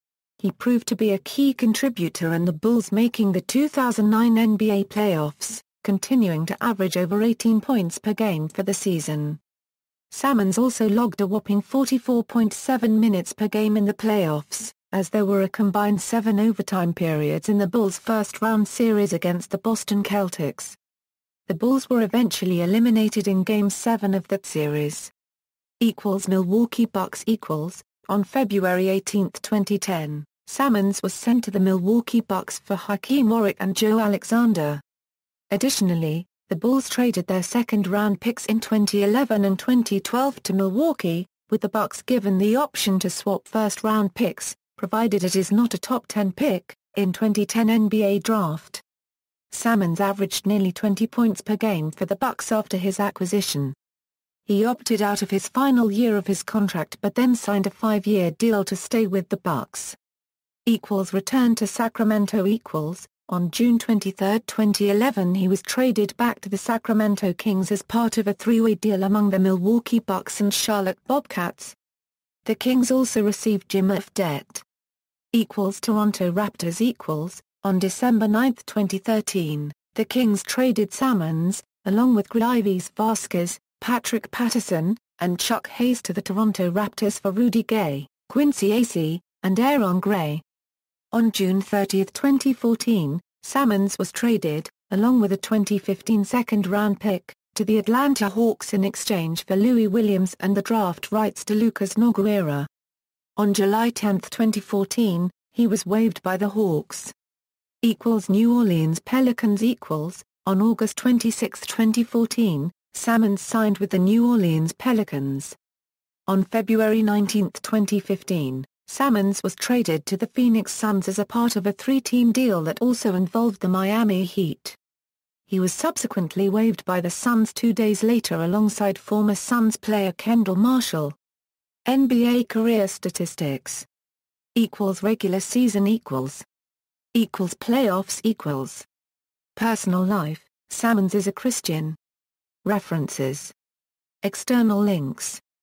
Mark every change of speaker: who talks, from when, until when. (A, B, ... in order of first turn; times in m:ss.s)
0:00.4-0:09.4 A
0:10.1-0:20.8 A
0:21.5-0:25.1 A
0:25.8-0:34.8 A
0:35.5-0:48.8 A
0:49.5-0:53.8 A
0:54.5-1:00.0 A
1:00.7-1:11.8 A
1:12.4-1:14.6 A
1:15.3-1:30.4 A
1:31.1-1:42.7 A
1:43.4-1:47.1 A
1:47.8-1:55.6 A
1:56.3-2:04.8 A
2:05.5-2:11.2 A
2:11.9-2:13.9 A
2:14.6-2:16.5 A
2:17.1-2:18.9 A
2:19.6-2:22.0 A
2:22.6-2:23.5 A
2:24.2-2:25.4 A